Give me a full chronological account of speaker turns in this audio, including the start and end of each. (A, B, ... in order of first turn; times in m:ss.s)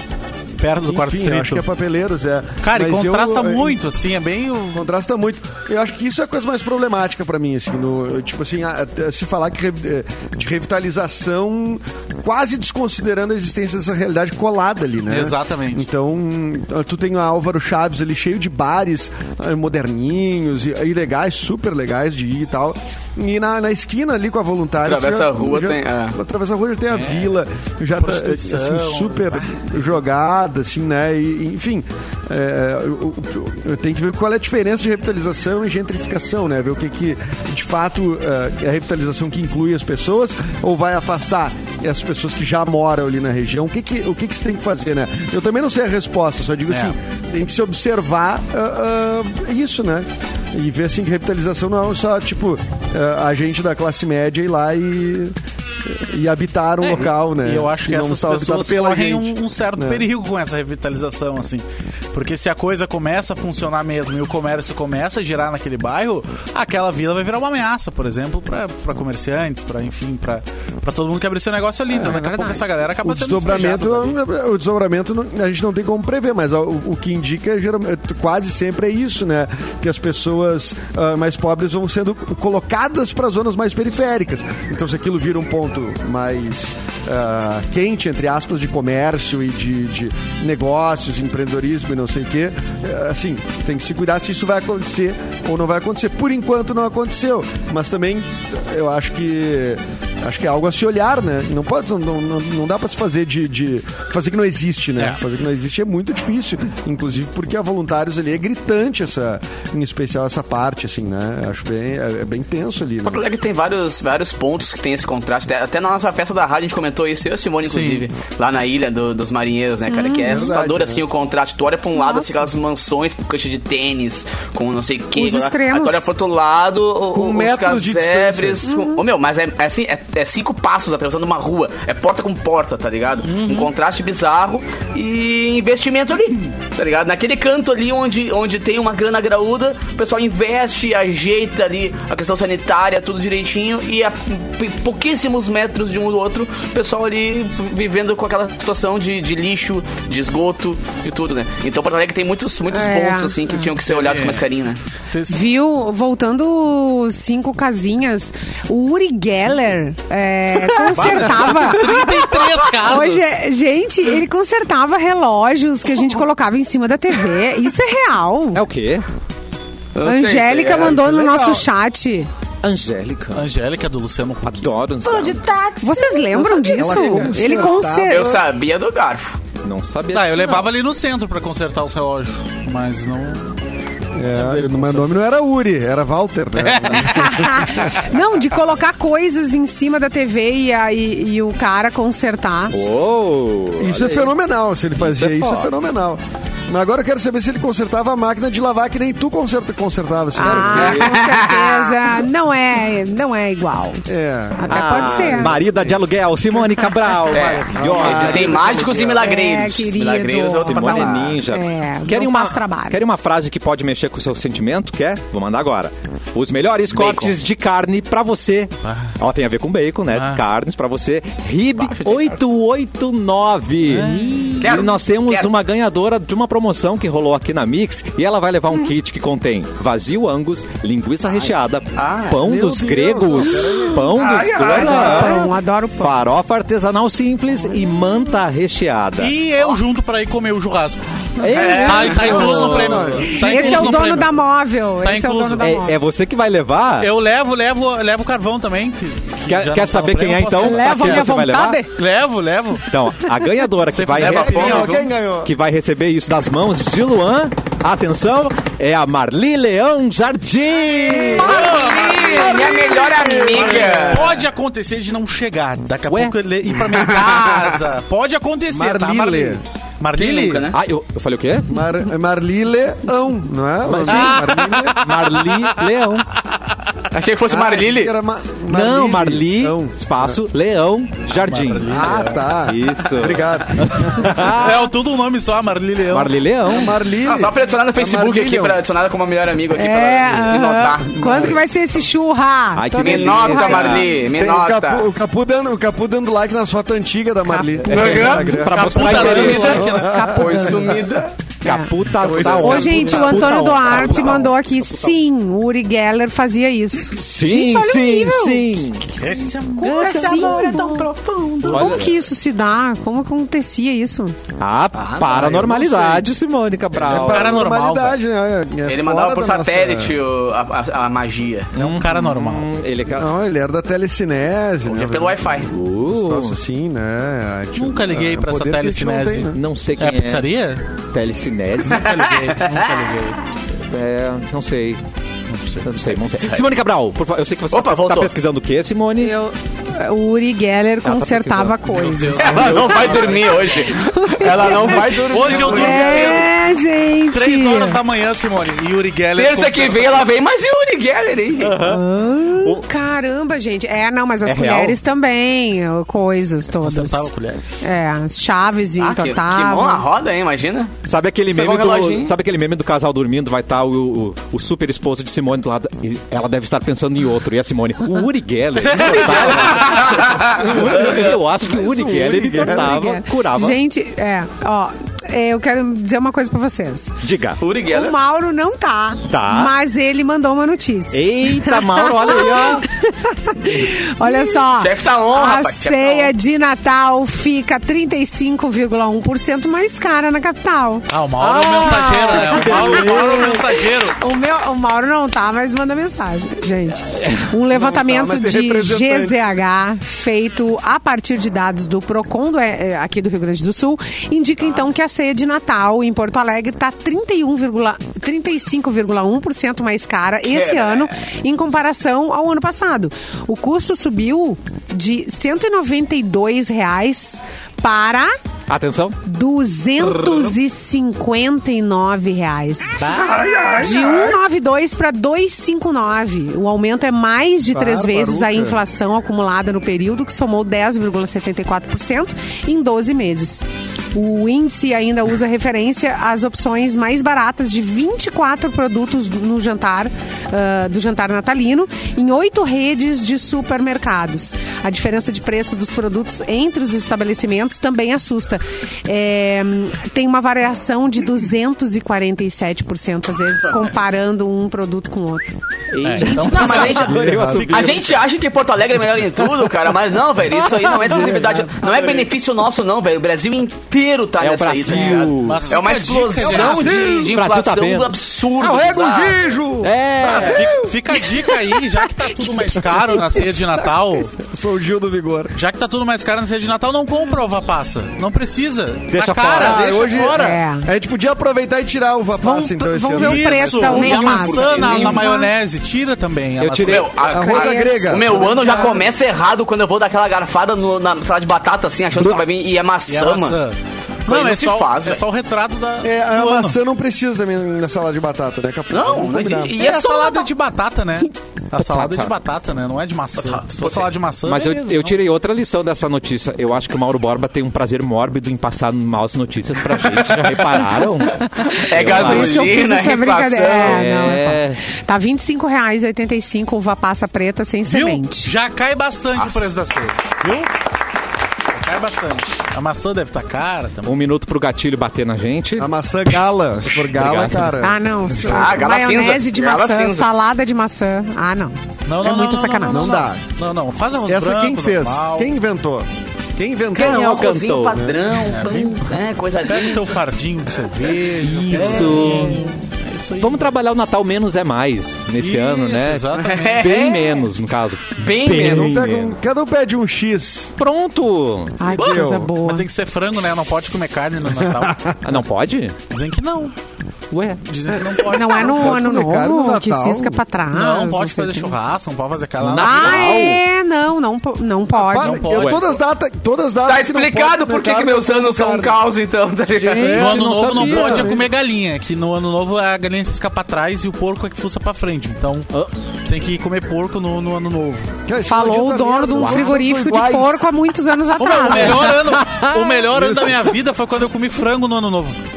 0:00.6-0:01.7 A
0:00.8-0:03.8 B
0:02.6-0:04.8 A
0:04.7-1:00.1 B
0:15.1-0:15.8 A
0:24.8-0:26.2 C
0:26.9-0:27.3 A
0:28.0-0:29.7 A
0:46.7-0:47.0 A
0:56.9-1:14.2 A
1:12.1-1:12.6 D
1:13.0-1:53.3 B
1:53.0-2:34.8 C
1:57.6-1:58.1 A
1:59.9-2:00.5 D
2:00.2-2:01.0 B
2:02.0-2:02.4 D
2:05.2-2:06.1 D
2:07.1-2:08.7 B
2:08.7-2:09.0 D
2:13.3-2:13.7 A
2:32.7-2:33.7 D
2:33.9-2:34.4 A
2:35.1-2:35.4 A
2:35.3-2:48.6 D
2:40.9-2:43.3 A
2:48.5-2:49.1 E
2:50.0-2:51.0 C
2:50.0-2:52.3 D
2:50.7-2:51.7 B
2:52.6-2:53.5 E
2:53.3-2:54.7 A
2:54.4-2:55.5 E
2:55.2-2:56.0 C
2:55.8-2:58.3 D
2:56.5-2:58.4 B
2:56.8-2:57.5 E
2:58.0-2:59.4 C
2:59.6-3:00.7 E
3:00.1-3:03.6 A
3:04.2-3:07.8 B
3:04.2-3:05.2 A
3:06.6-3:07.4 A
3:07.1-3:12.9 D
3:12.7-3:14.3 E
3:13.8-3:21.1 B
3:15.0-3:15.7 E
3:20.4-3:25.6 D
3:20.4-3:21.1 E
3:20.8-3:22.0 C
3:24.1-3:26.0 B
3:24.7-3:29.0 E
3:27.3-3:31.4 C
3:27.7-3:29.2 B
3:29.2-3:33.0 D
3:30.6-3:59.4 E
3:36.9-3:37.4 C
3:38.8-3:39.2 A
3:40.1-3:40.4 A
3:41.8-3:42.4 C
3:43.8-3:44.6 A
3:44.6-3:45.5 C
3:52.0-3:52.4 C
3:52.4-3:54.0 B
3:54.1-3:55.4 C
3:54.6-3:56.2 D
3:59.2-4:01.0 A
4:01.4-4:03.2 E
4:01.5-4:02.6 C
4:01.8-4:04.4 A
4:02.1-4:03.8 B
4:03.3-4:06.0 D
4:05.0-4:05.6 A
4:05.6-4:07.1 E
4:07.0-4:11.3 A
4:09.5-4:11.8 E
4:10.6-4:11.9 D
4:11.9-4:12.9 A
4:12.9-4:14.9 E
4:13.9-4:14.8 A
4:14.2-4:15.1 C
4:14.3-4:15.5 B
4:15.4-4:21.7 E
4:21.4-4:22.8 A
4:21.4-4:24.4 C
4:22.2-4:24.4 B
4:23.5-4:30.7 A
4:26.1-4:26.4 E
4:28.7-4:29.6 B
4:30.1-4:30.8 C
4:30.7-4:31.9 E
4:31.7-4:35.0 B
4:33.9-4:36.3 E
4:34.0-4:37.0 A
4:37.1-4:38.1 C
4:37.5-4:40.4 B
4:38.7-4:44.9 E
4:41.4-4:42.6 A
4:41.9-4:44.5 B
4:44.5-4:46.4 A
4:46.1-4:47.0 E
4:46.6-4:48.8 B
4:46.9-4:51.5 C
4:49.7-4:54.1 D
4:51.1-4:51.7 B
4:52.8-4:54.2 E
4:53.0-4:55.1 C
4:54.3-5:01.0 B
4:57.5-4:58.1 D
4:57.9-5:01.3 C
4:57.9-4:59.9 E
4:58.7-5:00.3 A
4:59.3-5:01.0 D
5:01.6-5:01.9 D
5:01.6-5:04.8 E
5:02.2-5:03.5 B
5:02.2-5:03.6 A
5:02.5-5:08.7 D
5:07.1-5:09.1 E
5:09.2-5:10.7 A
5:09.8-5:14.4 D
5:09.9-5:11.8 C
5:11.6-5:12.2 A
5:11.7-5:12.2 E
5:14.6-5:17.6 E
5:15.0-5:15.4 C
5:15.4-5:16.3 B
5:15.4-5:16.0 A
5:17.0-5:18.2 A
5:17.0-5:20.2 B
5:18.8-5:21.8 C
5:21.8-5:22.7 A
5:21.8-5:23.3 E
5:23.1-5:29.6 B
5:24.9-5:25.7 C
5:25.7-5:26.6 E
5:27.8-5:30.8 A
5:29.5-5:30.5 E
5:31.1-5:32.2 E
5:31.9-5:33.4 A
5:32.1-5:33.0 C
5:33.9-5:35.0 E
5:35.5-5:36.3 A
5:35.8-5:39.3 E
5:37.7-5:38.3 C
5:39.2-5:42.8 D
5:41.0-5:41.8 E
5:41.9-5:43.7 A
5:42.4-5:46.5 C
5:43.7-5:48.0 D
5:44.7-5:46.6 A
5:47.3-5:50.2 A
5:49.4-5:51.8 C
5:51.6-5:52.8 E
5:51.8-6:00.1 D
5:54.4-5:55.0 E
5:56.8-5:57.9 A
5:59.0-6:00.9 C
6:01.1-6:13.8 E
6:01.5-6:02.3 C
6:09.0-6:11.2 C
6:09.0-6:09.7 A
6:10.6-6:13.0 B
6:12.6-6:17.2 D
6:17.2-6:17.6 E
6:17.6-6:18.2 C
6:17.8-6:31.1 D
6:19.3-6:19.7 E
6:21.1-6:22.9 E
6:24.3-6:26.3 C
6:31.1-6:34.2 A
6:31.4-6:33.6 E
6:32.4-6:58.3 D
6:37.7-6:39.4 B
6:50.5-6:51.1 C
6:58.7-6:59.2 E
6:59.2-7:35.5 D
7:03.0-7:03.4 A
7:03.1-7:04.4 C
7:07.7-7:08.8 B
7:35.9-7:38.1 E
7:36.0-7:38.0 A
7:36.2-7:36.8 D
7:36.3-7:49.4 C
7:36.9-7:38.0 B
7:40.7-7:42.3 B
7:40.9-7:41.4 E
7:44.4-7:45.7 E
7:44.9-7:47.0 A
7:46.4-7:47.3 B
7:46.6-7:48.1 E
7:48.6-7:50.9 B
7:49.8-7:50.8 E
7:50.2-7:54.3 A
7:54.4-7:55.5 B
7:55.6-8:00.6 A
7:59.1-8:00.1 E
7:59.5-8:03.8 B
8:00.2-8:00.9 D
8:02.4-8:05.5 D
8:03.1-8:07.1 A
8:03.8-8:05.3 C
8:06.6-8:07.1 E
8:06.8-8:13.6 C
8:07.2-8:09.1 B
8:07.3-8:09.0 D
8:13.1-8:16.8 A
8:14.3-8:15.2 C
8:16.0-8:19.8 B
8:18.9-8:20.5 C
8:19.8-8:25.2 A
8:21.7-8:22.3 E
8:23.4-8:24.1 C
8:24.4-8:32.8 E
8:29.9-8:34.1 C
8:31.6-8:38.5 D
8:33.8-8:34.8 E
8:37.9-8:40.7 A
8:41.7-8:44.2 A
8:44.0-8:45.9 E
8:45.8-8:48.5 B
8:46.9-8:47.8 E
8:47.8-8:53.2 D
8:48.4-8:50.3 C
8:52.1-8:55.5 A
8:52.9-8:53.4 B
8:54.3-8:57.4 B
8:57.0-9:00.2 C
8:57.0-8:58.0 E
8:57.9-8:58.3 B
8:58.5-8:59.1 A
8:59.7-9:03.7 A
9:01.4-9:02.8 E
9:01.8-9:02.1 C
9:03.4-9:09.4 E
9:05.4-9:06.8 A
9:06.4-9:07.5 C
9:08.2-9:09.1 C
9:08.5-9:10.8 B
9:10.8-9:11.8 E
9:11.8-9:12.9 D
9:11.9-9:12.5 B
9:12.0-9:15.2 A
9:15.2-9:16.0 E
9:16.1-9:16.7 A
9:17.3-9:17.6 E
9:17.6-9:18.9 A
9:18.2-9:21.8 D
9:18.6-9:20.4 B
9:20.7-9:23.5 A
9:22.6-9:23.6 E
9:22.8-9:25.6 D
9:25.0-9:29.0 B
9:25.2-9:25.9 A
9:25.6-9:25.8 E
9:26.8-9:30.2 C
9:29.8-9:31.4 E
9:30.0-9:31.5 B
9:30.1-9:38.1 A
9:38.3-9:40.6 B
9:38.5-9:42.2 D
9:39.4-9:39.7 E
9:41.4-9:45.4 A
9:42.0-9:43.6 E